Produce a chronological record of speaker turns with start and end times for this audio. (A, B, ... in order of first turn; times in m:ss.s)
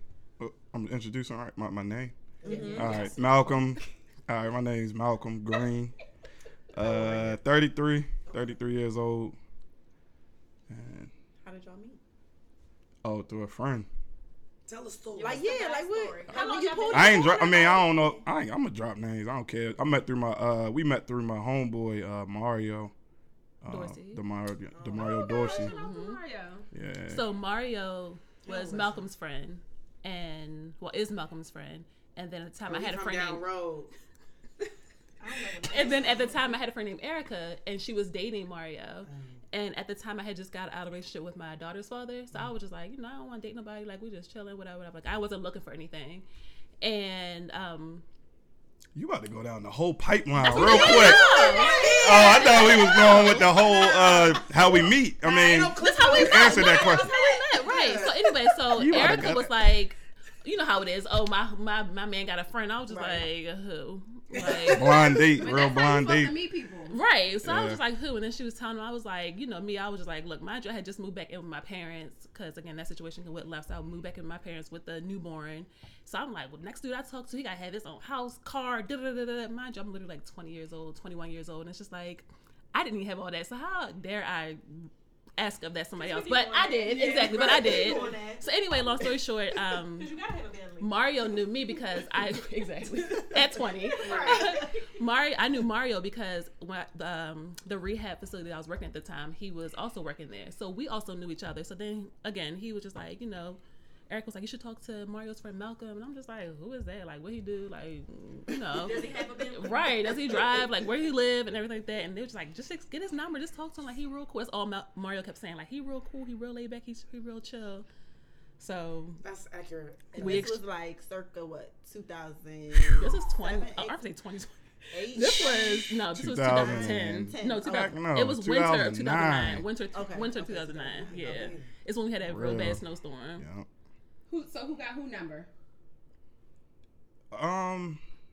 0:00.4-0:02.1 A
0:02.4-0:03.1 B
0:02.4-0:03.0 C
0:02.5-0:03.8 D
0:02.8-0:05.9 A
0:06.7-0:09.4 A
0:06.8-0:07.3 E
0:06.8-0:07.3 B
0:10.7-0:11.1 A
0:11.4-0:12.0 B
0:13.0-0:13.9 A
0:14.7-0:16.5 E
0:15.2-0:18.2 B
0:15.2-0:15.6 F
0:16.3-0:17.4 F
0:16.9-0:22.9 A
0:23.6-0:25.7 A
0:23.7-0:24.2 D
0:24.7-0:25.7 E
0:25.0-0:26.7 C
0:25.6-0:26.2 D
0:26.7-0:27.2 A
0:27.1-0:33.5 D
0:28.4-0:29.1 E
0:32.7-0:33.9 E
0:35.2-0:36.5 F
0:35.7-0:46.2 D
0:39.1-0:39.4 E
0:46.8-0:48.0 D
0:49.0-0:51.3 A
0:50.4-0:53.6 D
0:50.5-0:53.2 C
0:51.6-0:51.9 B
0:51.9-0:57.1 A
0:53.6-0:58.3 E
0:56.0-0:56.5 C
0:56.0-1:05.1 D
0:58.8-0:59.5 A
1:02.9-1:03.3 B
1:04.3-1:05.3 E
1:04.7-1:06.4 A
1:05.4-1:07.0 C
1:06.9-1:30.1 D
1:07.4-1:07.8 A
1:26.0-1:28.4 F
1:27.2-1:27.8 E
1:29.8-1:31.1 F
1:30.8-1:57.9 D
1:34.0-1:34.8 F
1:34.0-1:34.5 E
1:48.7-1:50.6 F
1:58.6-1:59.2 D
1:59.2-2:00.5 E
2:00.1-2:04.0 B
2:00.2-2:00.6 D
2:03.0-2:13.4 D
2:04.9-2:05.9 B
2:05.3-2:09.7 A
2:06.5-2:07.9 B
2:09.9-2:11.6 B
2:11.0-2:11.7 E
2:12.2-2:12.8 A
2:13.4-2:13.7 A
2:14.3-2:15.5 C
2:17.3-2:18.0 A